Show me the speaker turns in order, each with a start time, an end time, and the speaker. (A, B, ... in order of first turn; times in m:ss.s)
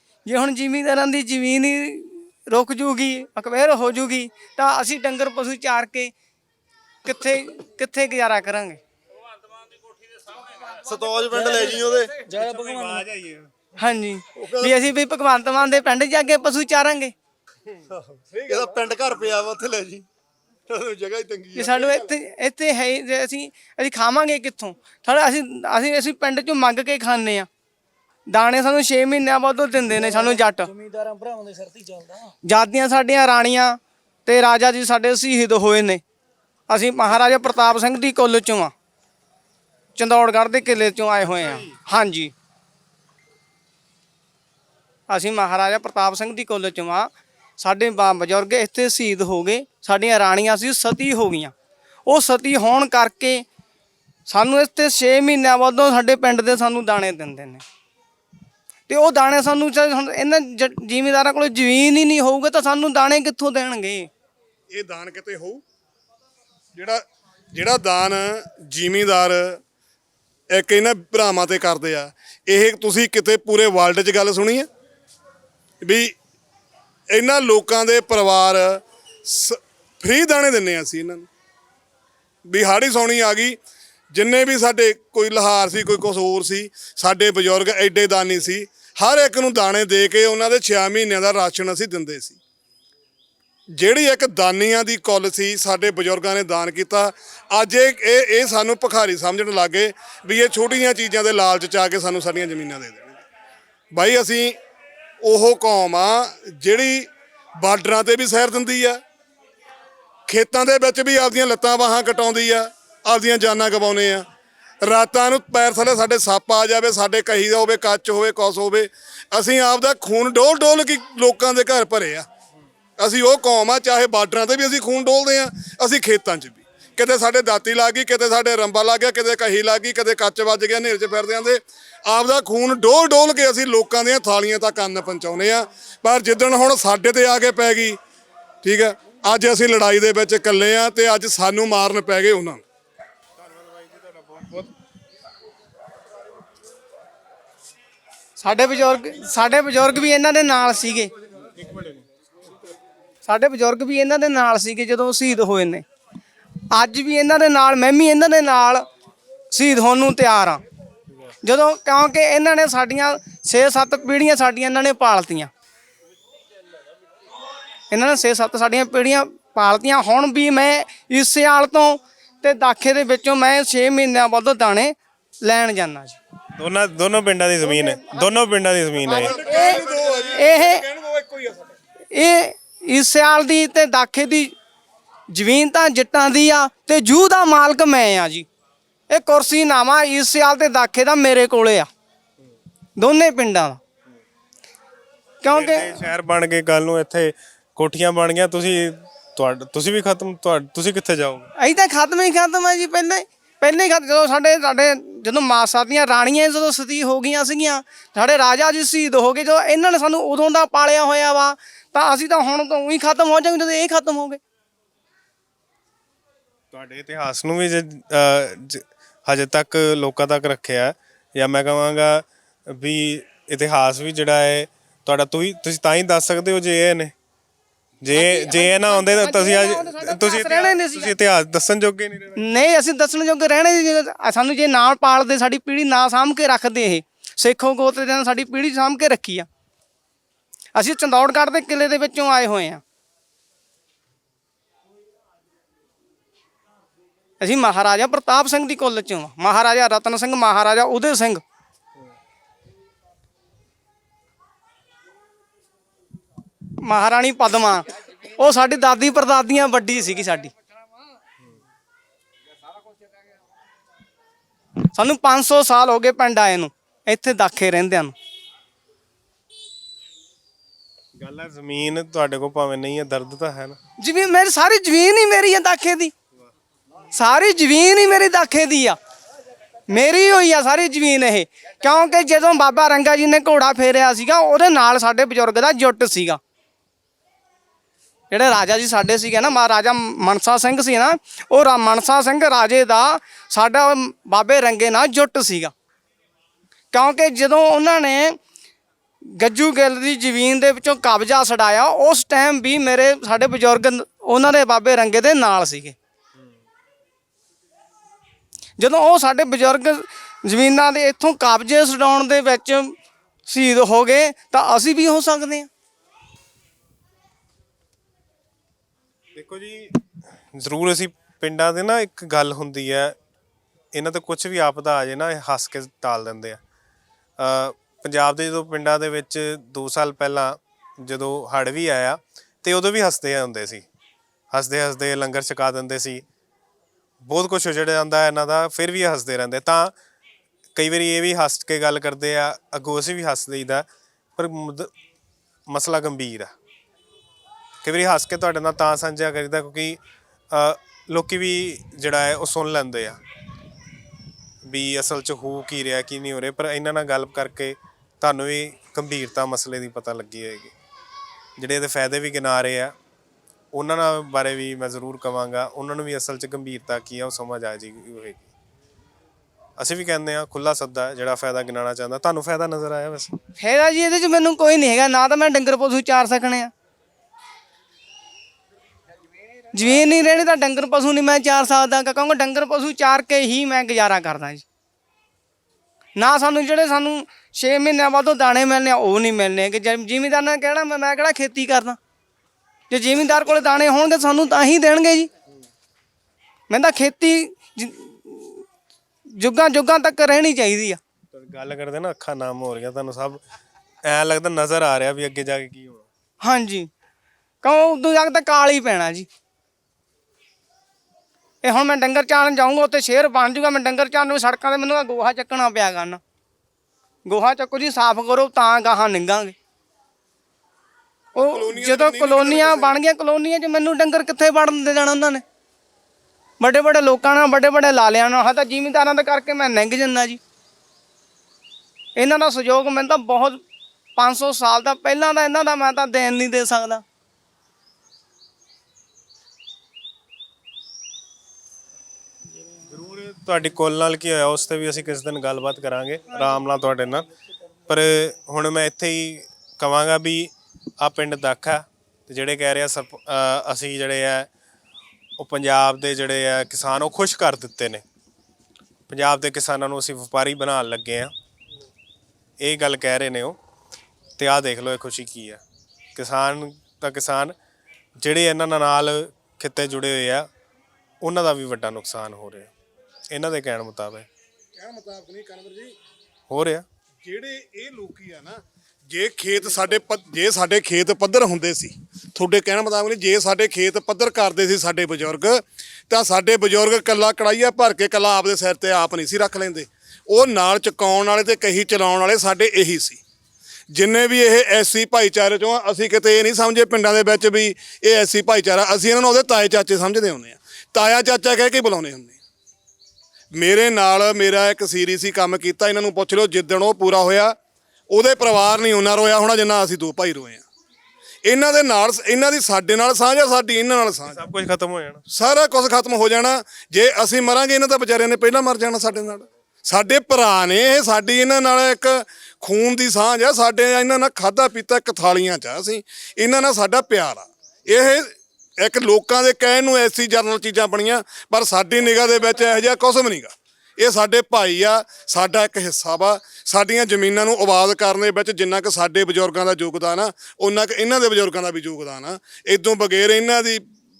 0:00.3-0:06.1 A
0:07.0-0:08.8 A
0:10.7-0:12.7 B
0:12.3-0:12.9 C
0:12.4-0:13.4 D
0:13.8-0:17.1 A
0:14.4-0:14.7 B
0:17.9-0:20.1 B
0:18.4-0:18.8 E
0:20.7-0:21.8 B
0:21.5-0:27.5 A
0:28.3-0:30.7 A
0:30.7-0:32.3 C
0:32.4-0:36.0 A
0:36.7-0:38.7 A
0:40.0-0:42.3 A
0:45.1-0:51.5 A
0:52.1-0:53.5 A
0:54.3-0:57.6 A
0:58.9-1:04.1 A
1:04.7-1:05.6 E
1:06.8-1:07.0 E
1:07.5-1:09.6 E
1:10.5-1:14.7 E
1:15.8-1:16.1 E
1:17.1-1:21.3 E
1:22.5-1:23.6 E
1:24.1-1:32.4 E
1:33.7-1:43.2 E
1:43.9-1:44.6 E
1:45.2-1:47.1 E
1:47.6-1:49.0 E
1:50.3-1:54.3 E
1:54.8-2:02.3 E
2:03.0-2:18.0 E
2:18.6-2:22.6 E
2:23.9-2:24.7 D
2:28.4-2:31.1 A
2:31.6-2:31.9 D
2:33.2-2:35.8 A
2:36.7-2:38.8 A
2:39.5-2:40.6 A
2:41.4-2:45.5 A
2:47.9-2:56.2 A
2:56.6-2:59.4 D
2:57.7-2:58.2 A
2:59.1-3:01.7 E
2:59.1-3:00.8 A
3:02.1-3:04.5 A
3:05.3-3:08.5 A
3:09.1-3:11.9 A
3:13.0-3:13.8 A
3:15.4-3:16.0 A
3:15.5-3:21.5 D
3:21.6-3:34.4 A
3:36.7-3:47.1 D
3:48.0-3:52.4 D
3:48.1-3:51.1 A
3:52.4-3:59.5 A
4:00.8-4:02.8 A
4:07.4-4:11.4 A
4:16.8-4:20.5 A
4:24.9-4:28.1 A
4:31.2-4:33.8 D
4:34.0-4:36.1 A
4:37.1-4:39.0 A
4:39.9-4:46.4 A
4:48.3-4:55.7 A
4:56.9-4:58.4 A
4:59.2-5:06.0 A
5:08.8-5:13.0 A
5:13.5-5:15.7 A
5:19.4-5:20.0 D
5:20.5-5:23.2 D
5:23.9-5:26.6 D
5:27.4-5:33.8 D
5:34.5-5:36.2 D
5:37.2-5:39.9 D
5:40.8-5:44.9 D
5:45.7-5:46.5 D
5:47.8-5:50.0 D
5:50.5-5:53.2 D
5:54.6-6:00.7 D
6:01.6-6:03.0 D
6:03.7-6:08.5 D
6:09.8-6:13.4 D
6:13.6-6:16.7 A
6:19.7-6:24.6 A
6:26.2-6:32.0 A
6:32.9-6:35.3 A
6:36.7-6:38.6 A
6:39.4-6:41.0 A
6:41.3-6:43.4 D
6:44.0-6:46.1 D
6:46.4-6:46.9 A
6:47.6-6:49.3 A
6:51.6-6:56.2 A
6:57.3-6:59.6 A
7:01.4-7:05.4 A
7:01.4-7:03.0 E
7:06.6-7:10.4 A
7:12.2-7:13.6 A
7:14.2-7:17.0 A
7:22.9-7:27.3 D
7:27.9-7:34.5 D
7:35.4-7:38.0 D
7:39.1-7:41.3 D
7:42.6-7:43.6 D
7:44.4-7:45.6 D
7:46.2-7:47.6 D
7:48.2-7:50.5 D
7:51.2-7:52.7 D
7:53.3-7:54.3 D
7:54.8-7:56.0 E
7:56.5-7:56.9 D
7:57.2-8:13.2 E
8:13.9-8:22.4 E
8:23.6-8:27.6 E
8:28.1-8:30.6 E
8:31.4-8:34.4 E
8:34.3-8:35.2 D
8:35.3-9:03.8 E